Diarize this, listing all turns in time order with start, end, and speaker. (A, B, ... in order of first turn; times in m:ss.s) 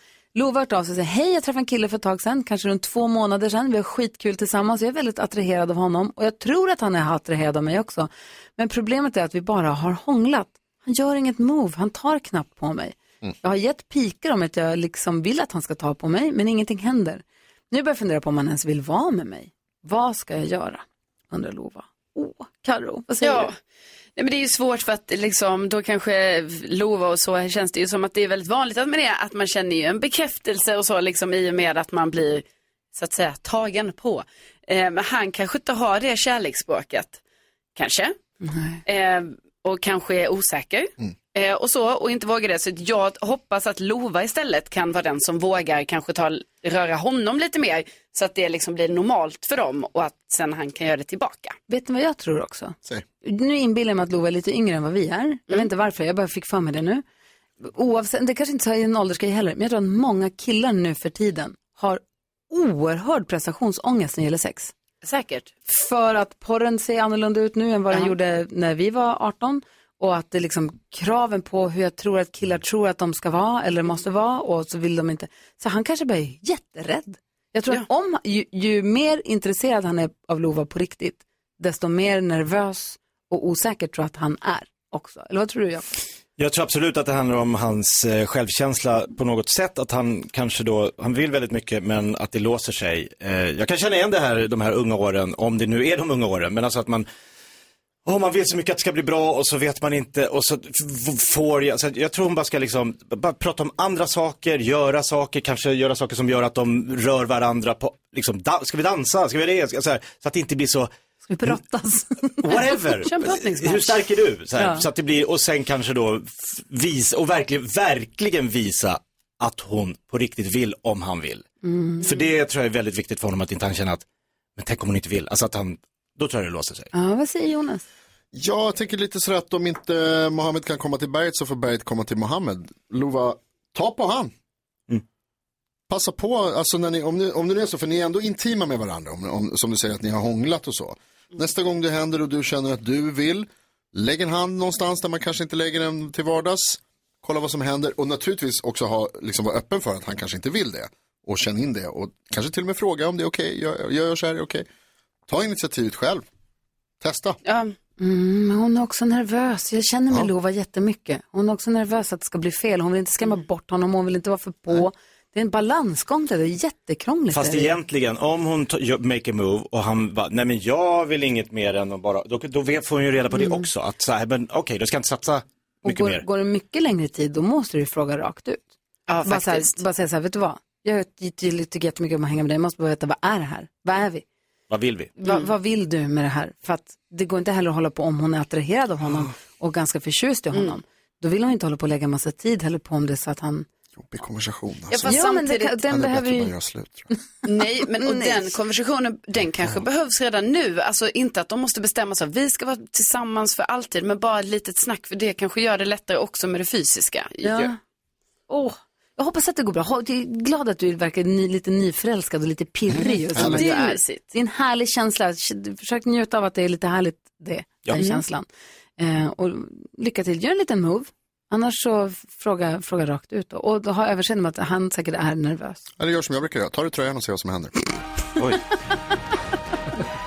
0:00.4-0:23.5 A
0:23.2-0:23.5 B
0:24.2-0:37.2 B
0:37.8-0:38.1 B
0:38.5-0:38.8 A
0:38.8-0:51.6 B
0:51.7-0:57.0 A
0:57.6-1:04.7 A
1:05.0-1:05.5 B
1:05.7-1:25.8 A
1:07.9-1:08.1 B
1:26.4-1:37.0 C
1:38.0-1:50.9 C
1:51.2-1:53.2 A
1:52.4-2:01.4 C
1:53.1-1:53.9 B
1:54.5-1:54.9 A
2:01.6-2:02.0 A
2:02.0-2:04.0 C
2:04.6-2:06.9 C
2:06.9-2:07.8 A
2:08.3-2:14.3 D
2:15.9-2:34.6 D
2:35.3-2:36.2 D
2:37.0-2:37.4 D
2:37.4-2:37.8 B
2:38.0-2:47.8 A
2:47.3-2:56.2 C
2:53.4-2:53.7 B
2:55.8-2:58.7 A
2:59.1-2:59.8 B
2:59.2-3:04.2 A
3:04.7-3:05.1 C
3:05.2-3:13.6 A
3:10.5-3:10.8 B
3:14.0-3:15.2 D
3:14.9-3:15.8 B
3:15.1-3:16.5 A
3:15.9-3:17.1 D
3:17.4-3:27.7 B
3:18.0-3:18.5 A
3:27.4-3:27.8 A
3:28.5-3:38.5 A
3:32.9-3:33.7 D
3:33.4-3:34.2 B
3:38.0-3:38.2 B
3:39.0-3:45.8 A
3:46.0-3:48.0 D
3:48.4-3:48.8 C